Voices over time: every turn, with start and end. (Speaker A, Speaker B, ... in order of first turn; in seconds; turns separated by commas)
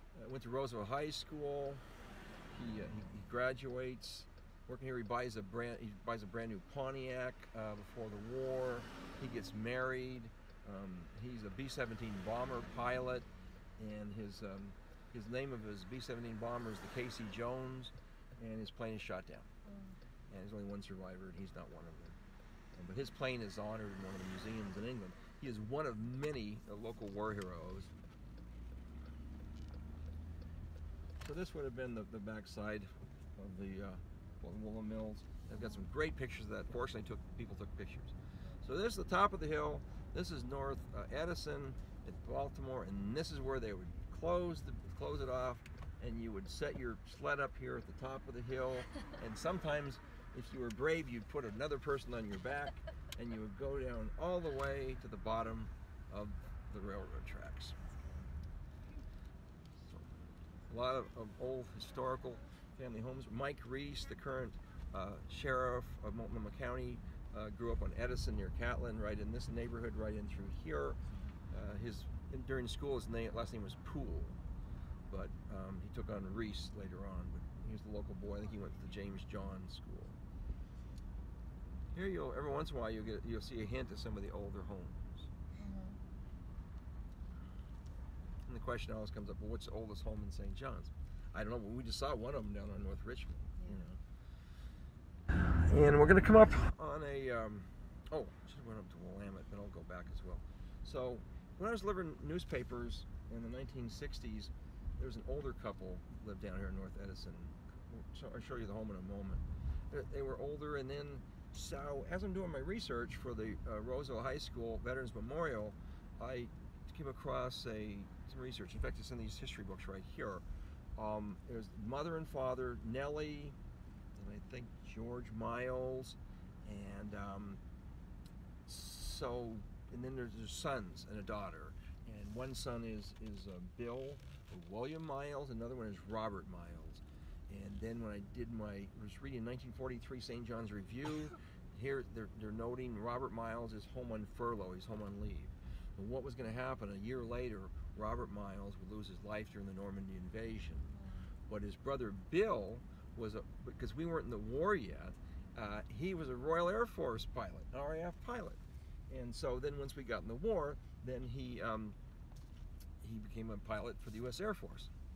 Speaker A: 0.1-1.8, Speaker A: 2.5-13.3, Speaker A: 13.8-19.5, Speaker B: 19.6-19.9, Speaker A: 20.3-22.2, Speaker A: 22.7-27.9, Speaker A: 31.2-57.8, Speaker B: 35.5-35.8, Speaker B: 57.8-58.3, Speaker A: 59.8-71.0, Speaker A: 71.5-74.4, Speaker A: 75.1-80.2, Speaker A: 81.9-85.3, Speaker B: 85.6-86.0, Speaker A: 88.5-94.0, Speaker A: 95.7-120.4, Speaker A: 121.0-123.5, Speaker A: 124.1-127.6, Speaker A: 128.7-150.9, Speaker B: 150.9-151.3, Speaker A: 151.5-161.9, Speaker A: 163.0-164.9